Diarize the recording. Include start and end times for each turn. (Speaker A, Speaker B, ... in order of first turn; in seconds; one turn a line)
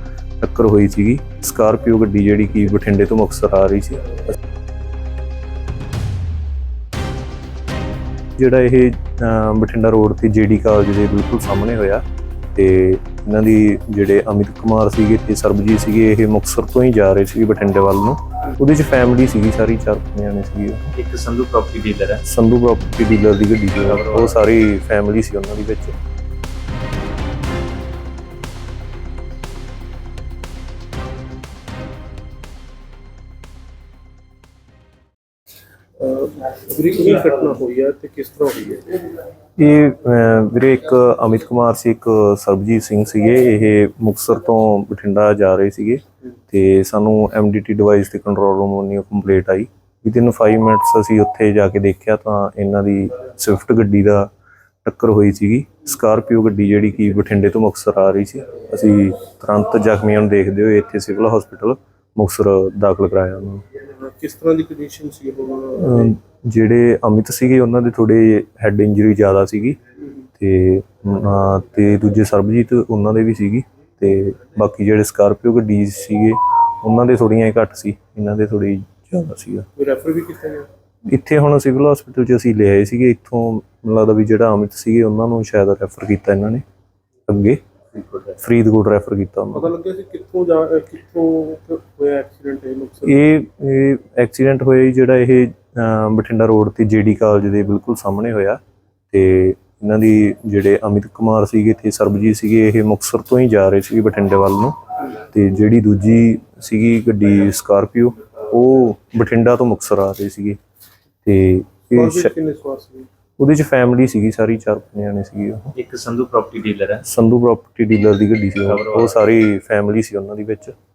Speaker A: 0.4-4.1
Speaker A: 8.4-12.0
Speaker A: 12.5-20.9
Speaker B: 20.9-22.2
Speaker A: 22.2-25.9
Speaker B: 23.9-24.4
Speaker C: 36.0-39.1
Speaker A: 39.6-54.3
Speaker A: 54.8-63.6
Speaker C: 63.9-66.1
Speaker A: 65.8-69.8
Speaker A: 70.4-79.7
Speaker C: 79.7-80.7
Speaker A: 81.1-86.6
Speaker A: 87.3-87.6
Speaker B: 87.9-88.4
Speaker A: 88.4-89.7
Speaker C: 89.5-93.2
Speaker A: 93.0-98.6
Speaker A: 99.1-110.6
Speaker A: 111.2-112.3
Speaker C: 111.9-113.1
Speaker A: 113.4-115.7
Speaker B: 115.7-117.0
Speaker A: 117.0-120.7
Speaker B: 118.7-119.2